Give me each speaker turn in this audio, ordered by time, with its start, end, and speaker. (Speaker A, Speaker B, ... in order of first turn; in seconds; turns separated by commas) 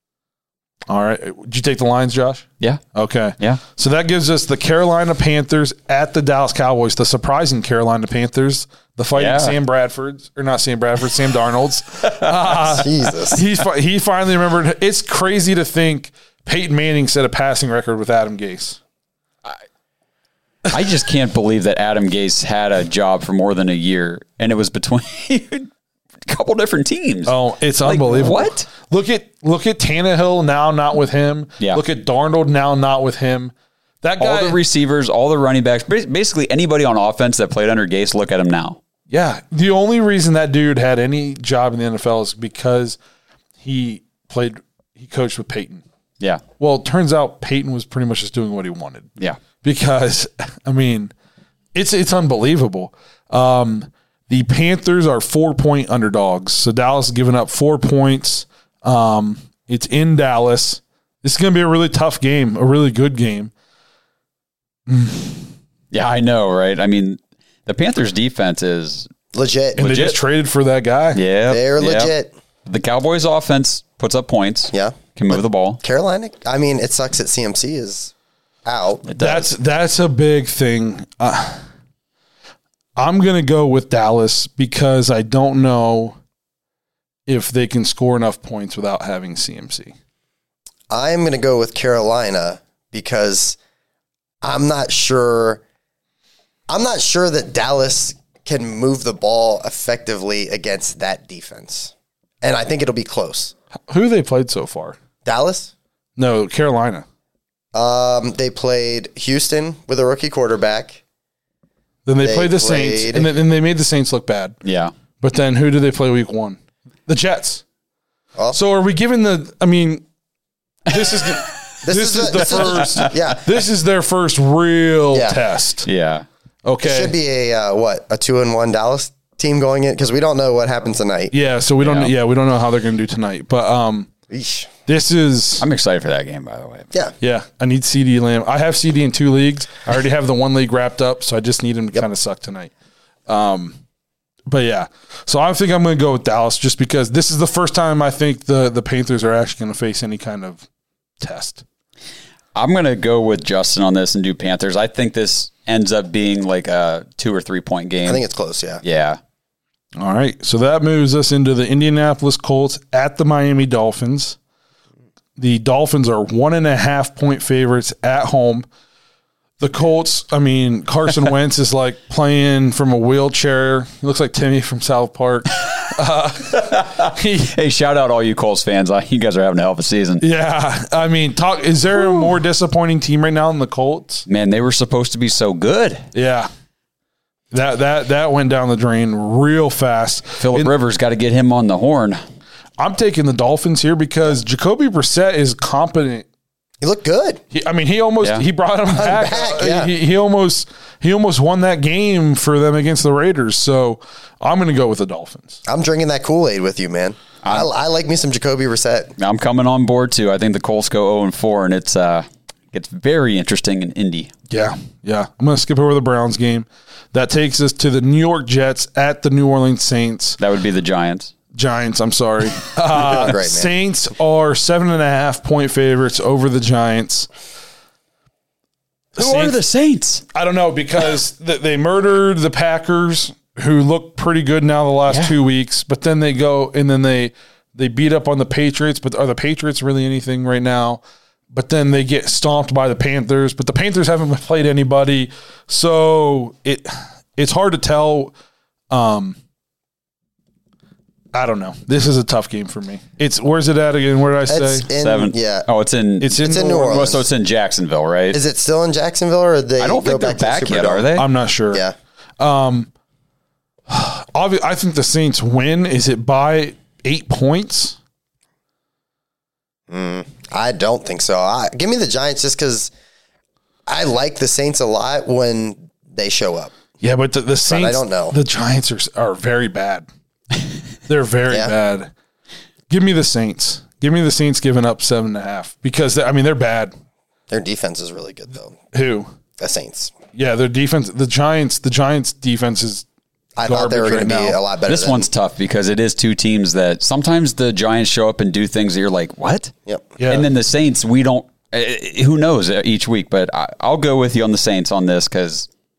Speaker A: 0.9-18.8, Speaker B: 9.1-9.6, Speaker C: 12.7-13.4, Speaker B: 20.7-25.7, Speaker B: 26.3-28.6, Speaker A: 27.3-34.6, Speaker B: 34.2-38.8, Speaker A: 39.1-43.0, Speaker A: 43.6-45.8, Speaker A: 46.6-51.1, Speaker A: 51.8-63.5, Speaker A: 64.9-65.5, Speaker B: 65.9-69.1, Speaker C: 69.3-69.8, Speaker B: 69.8-70.2, Speaker A: 69.8-71.2, Speaker B: 71.1-72.1, Speaker C: 71.5-72.3, Speaker B: 72.7-75.8, Speaker C: 74.7-78.1, Speaker C: 78.6-79.0, Speaker B: 79.1-79.5, Speaker A: 79.2-81.7, Speaker A: 83.0-86.2, Speaker A: 87.3-89.9, Speaker C: 90.9-93.6, Speaker C: 94.4-95.6, Speaker C: 96.7-103.5, Speaker A: 103.9-105.0, Speaker C: 105.2-105.7, Speaker A: 106.2-107.0, Speaker C: 107.7-111.0, Speaker A: 112.1-114.6, Speaker C: 112.2-113.3, Speaker B: 114.6-114.9, Speaker A: 115.2-117.6, Speaker A: 118.5-120.0, Speaker A: 120.9-125.9, Speaker C: 121.8-123.4, Speaker B: 122.4-123.1, Speaker C: 125.1-125.4, Speaker B: 125.8-126.3, Speaker A: 126.6-127.1, Speaker C: 126.8-131.3, Speaker A: 131.3-134.1, Speaker B: 131.8-132.1, Speaker C: 134.3-134.7, Speaker A: 134.9-135.6, Speaker B: 135.6-136.9, Speaker A: 137.2-142.7, Speaker A: 143.3-143.8, Speaker A: 144.5-150.6, Speaker A: 151.2-151.6, Speaker B: 152.6-158.2, Speaker C: 158.1-158.8, Speaker B: 158.8-159.2, Speaker A: 160.0-164.4, Speaker A: 165.4-168.7, Speaker A: 169.6-177.5, Speaker B: 176.6-180.2, Speaker A: 180.2-184.3, Speaker B: 184.3-186.1, Speaker A: 186.1-186.5, Speaker A: 187.5-190.7, Speaker B: 190.4-192.2, Speaker A: 192.8-196.2, Speaker C: 196.8-197.4, Speaker A: 197.5-205.6, Speaker C: 198.9-199.9, Speaker C: 205.7-209.1, Speaker B: 207.4-207.7, Speaker B: 209.2-214.3, Speaker A: 214.5-220.4, Speaker B: 220.4-221.3, Speaker A: 221.5-227.3, Speaker C: 222.9-223.7, Speaker A: 229.1-229.6, Speaker B: 229.2-230.2, Speaker A: 230.3-241.0, Speaker B: 235.1-235.3, Speaker A: 241.5-248.3, Speaker A: 248.9-249.4, Speaker A: 251.3-254.9, Speaker C: 254.5-255.7, Speaker B: 255.0-258.4, Speaker A: 256.2-257.0, Speaker C: 256.4-257.2, Speaker C: 258.3-261.1, Speaker B: 259.8-261.2, Speaker A: 261.1-261.8, Speaker A: 262.4-262.9, Speaker A: 263.9-268.0, Speaker C: 269.9-272.9, Speaker C: 273.9-276.8, Speaker A: 277.0-280.1, Speaker C: 277.7-278.4, Speaker A: 281.1-282.1, Speaker A: 282.9-286.9, Speaker C: 287.5-288.8, Speaker A: 288.9-289.3, Speaker C: 289.6-290.1, Speaker A: 290.3-293.0, Speaker C: 293.6-295.3, Speaker A: 293.6-294.6, Speaker B: 294.9-299.7, Speaker C: 299.9-300.1, Speaker A: 300.2-300.5, Speaker B: 300.3-305.7